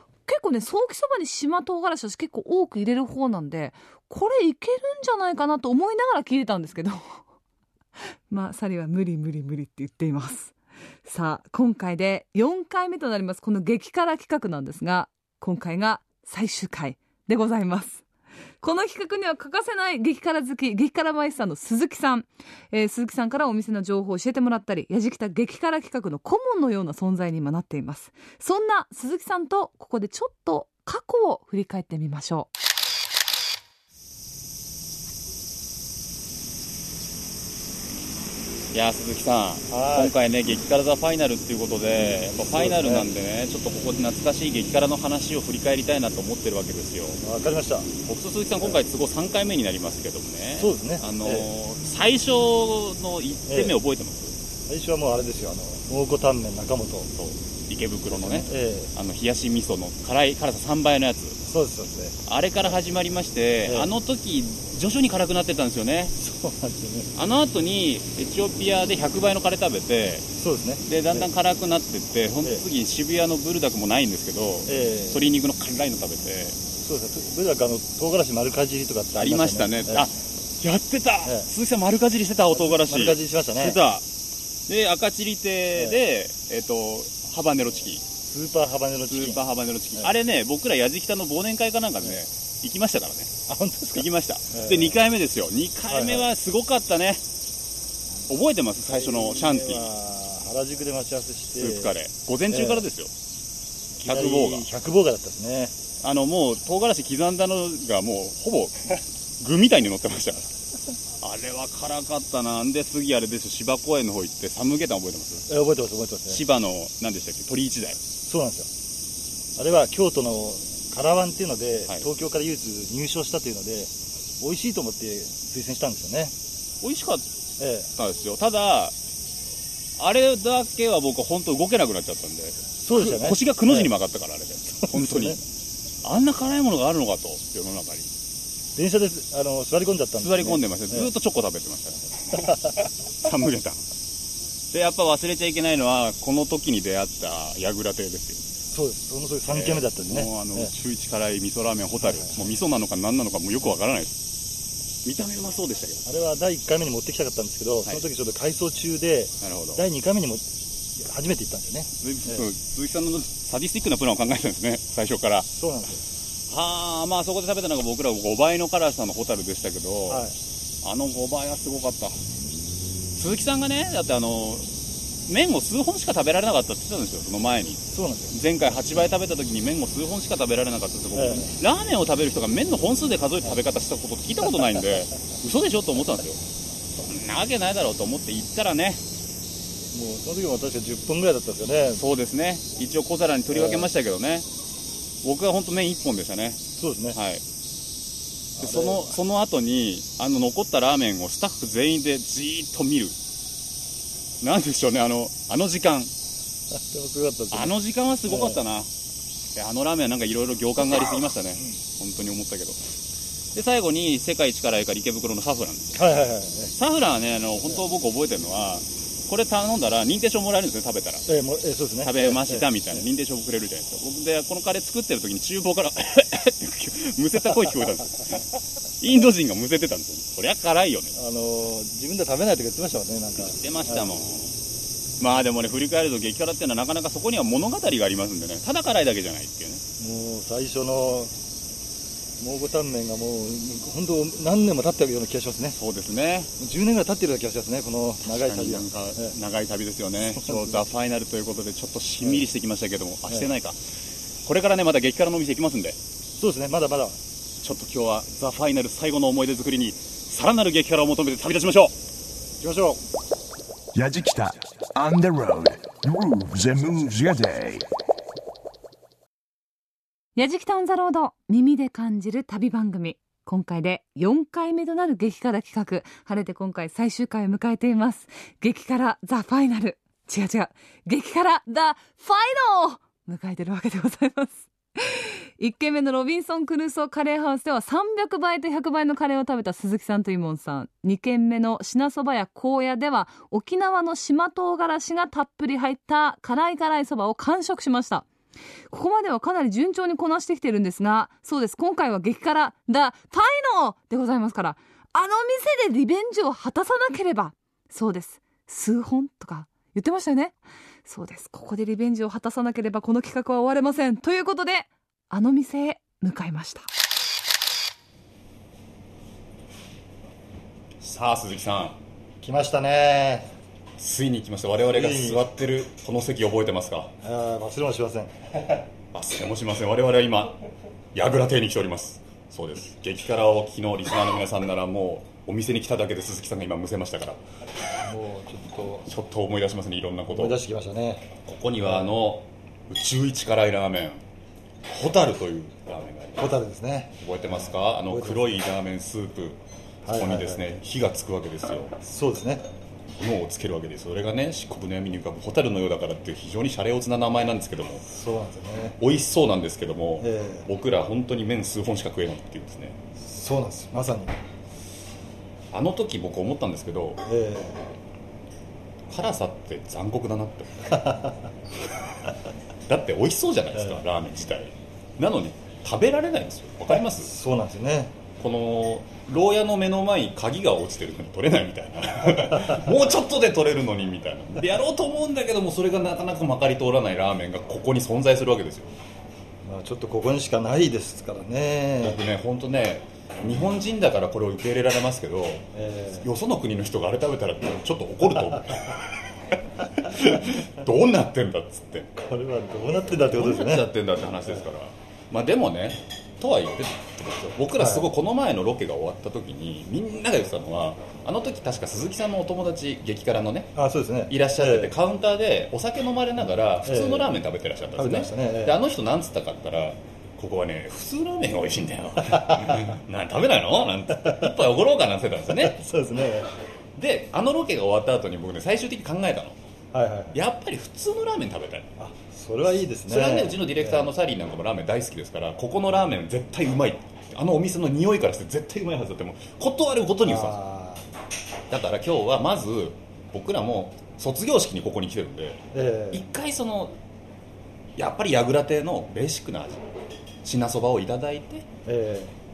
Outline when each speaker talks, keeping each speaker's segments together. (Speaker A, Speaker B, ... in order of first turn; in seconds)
Speaker A: 0.2-7.2, 8.3-10.5, 11.0-18.0, 18.6-32.5, 270.4-298.2, 298.9-316.9
Speaker B: 38.7-47.2, 48.0-54.4, 57.1-61.4, 62.3-66.1, 67.1-70.3, 70.8-76.6, 79.2-84.0, 84.7-88.0, 89.1-93.3, 93.9-97.2, 98.3-99.9, 101.6-103.1, 104.0-104.7, 106.0-110.6, 111.2-115.5, 116.3-118.0, 126.8-127.2, 128.0-128.9, 130.0-135.4, 136.0-138.1, 140.2-143.8, 144.7-148.4, 149.5-154.2, 155.0-156.0, 159.4-159.8, 162.0-165.5, 166.5-170.2, 170.8-172.2, 173.2-174.7, 175.3-186.4, 187.0-189.0, 191.9-194.4, 195.2-196.6, 197.1-197.4, 198.6-203.2, 204.4-206.1, 207.5-208.9, 209.5-212.8, 213.5-216.0, 216.7-221.2, 222.0-228.5, 229.0-231.1, 233.4-234.6, 235.2-239.8, 245.8-246.5, 248.2-253.8, 254.4-256.0, 257.6-261.9, 321.0-322.0, 324.0-327.1, 329.1-330.6, 331.1-337.4, 339.1-340.6, 341.4-344.2, 344.9-346.5, 347.2-351.9, 353.2-358.0, 359.0-363.0, 365.7-367.2, 369.1-371.2, 372.9-377.3, 378.4-388.9, 392.0-399.1, 400.0-402.1, 403.3-413.7, 414.3-425.8, 427.0-429.6, 430.3-431.9, 433.1-440.6, 441.7-446.9, 448.0-449.8, 450.4-451.6
Speaker C: 39.7-40.1, 42.1-43.1, 47.2-47.9, 50.6-51.5, 53.5-53.8, 54.7-57.1, 58.1-58.9, 61.4-62.1, 66.2-67.1, 70.3-71.3, 74.7-75.3, 76.8-80.1, 82.5-83.8, 88.2-89.4, 93.5-95.0, 95.9-96.3, 98.8-101.9, 102.5-102.8, 104.0-105.7, 115.5-116.4, 118.2-118.7, 119.5-126.3, 127.6-127.9, 132.8-133.9, 134.8-135.4, 138.8-141.1, 148.7-150.7, 152.0-152.4, 156.1-162.4, 165.6-166.0, 170.1-170.3, 177.9-178.4, 181.1-181.5, 189.9-192.0, 193.5-193.9, 196.8-197.2, 198.6-199.2, 206.7-207.7, 208.3-208.6, 215.9-216.7, 221.3-223.0, 231.1-234.2, 240.0-241.3, 242.4-245.8, 246.6-249.3, 250.3-250.8, 256.4-257.2, 262.6-263.0, 322.4-323.5, 324.9-325.5, 327.2-328.3, 338.0-339.1, 340.3-341.3, 341.8-342.1, 346.4-348.6, 350.0-350.8, 352.0-352.6, 358.0-359.0, 360.2-360.7, 363.2-364.4, 367.2-367.9, 370.9-371.3, 373.7-374.0, 376.9-378.1, 389.6-392.2, 395.7-396.3, 402.1-403.9, 407.8-408.1, 413.7-414.9, 416.9-417.4, 417.9-418.8, 424.1-424.6, 425.5-426.5, 429.9-430.4, 432.0-434.1, 440.2-441.0, 445.7-446.2, 451.8-452.3
Speaker D: 263.9-267.9